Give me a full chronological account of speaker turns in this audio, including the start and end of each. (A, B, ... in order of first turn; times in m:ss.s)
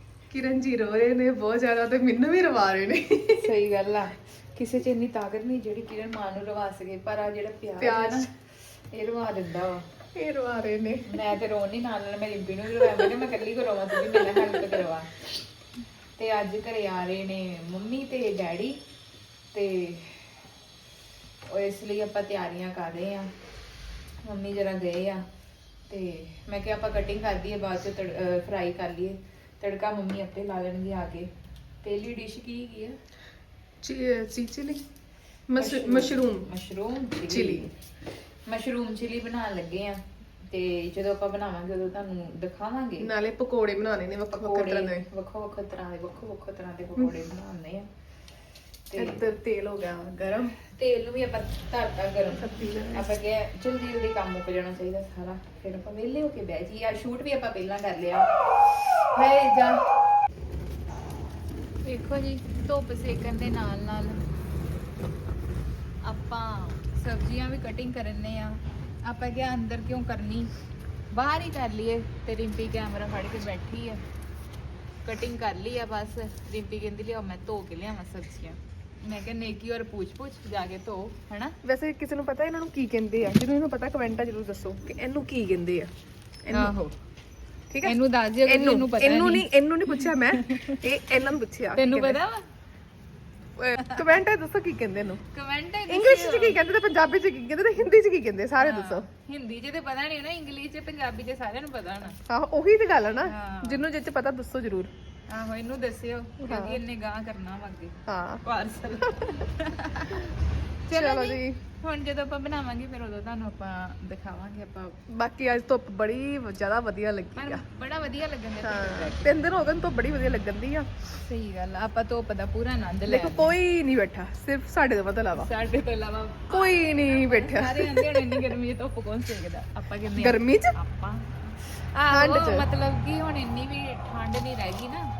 0:00.3-0:03.4 A
0:03.4-0:08.3 B
0:07.8-0:08.3 A
0:08.9-0:09.8 B
0:10.1-0:11.0 A
0:11.1-0:15.2 B
0:12.8-0:13.1 A
0:14.1-0:14.8 A
0:16.2-0:18.8 B
0:19.5-0:20.3 B
0:21.5-0:23.3 B
0:24.2-0:25.2 B
0:25.9-0:31.3 B
0:31.8-0:33.0 B
0:33.8-0:34.8 A
0:35.5-0:36.4 A
0:35.6-0:37.7 B
0:37.3-0:37.7 A
0:38.5-0:43.1 B
0:43.0-0:45.0 A
0:44.3-0:47.9 B
0:48.9-0:49.2 B
0:49.0-0:50.5 A
0:50.7-0:59.8 B
0:52.3-0:53.1 A
1:01.8-1:04.2 B
1:06.0-1:10.5 B
1:11.1-1:14.0 B
1:15.0-1:21.5 B
1:21.6-1:25.9 A
1:26.4-1:26.7 A
1:26.5-1:26.9 B
1:27.7-1:32.2 A
1:27.8-1:30.8 B
1:31.8-1:32.4 B
1:33.6-1:35.2 A
1:33.8-1:34.1 B
1:35.3-1:36.6 B
1:35.9-1:39.0 A
1:38.6-1:42.2 B
1:42.3-1:44.9 A
1:43.3-1:43.8 B
1:45.3-1:50.3 B
1:46.4-1:46.8 A
1:48.0-1:48.4 A
1:50.8-1:55.0 B
1:50.9-1:51.6 A
1:55.1-1:57.6 A
1:57.4-1:59.5 B
1:58.6-2:00.9 A
2:01.2-2:03.5 B
2:03.1-2:05.5 A
2:05.4-2:15.0 B
2:06.5-2:08.4 A
2:10.2-2:10.8 A
2:12.1-2:12.6 A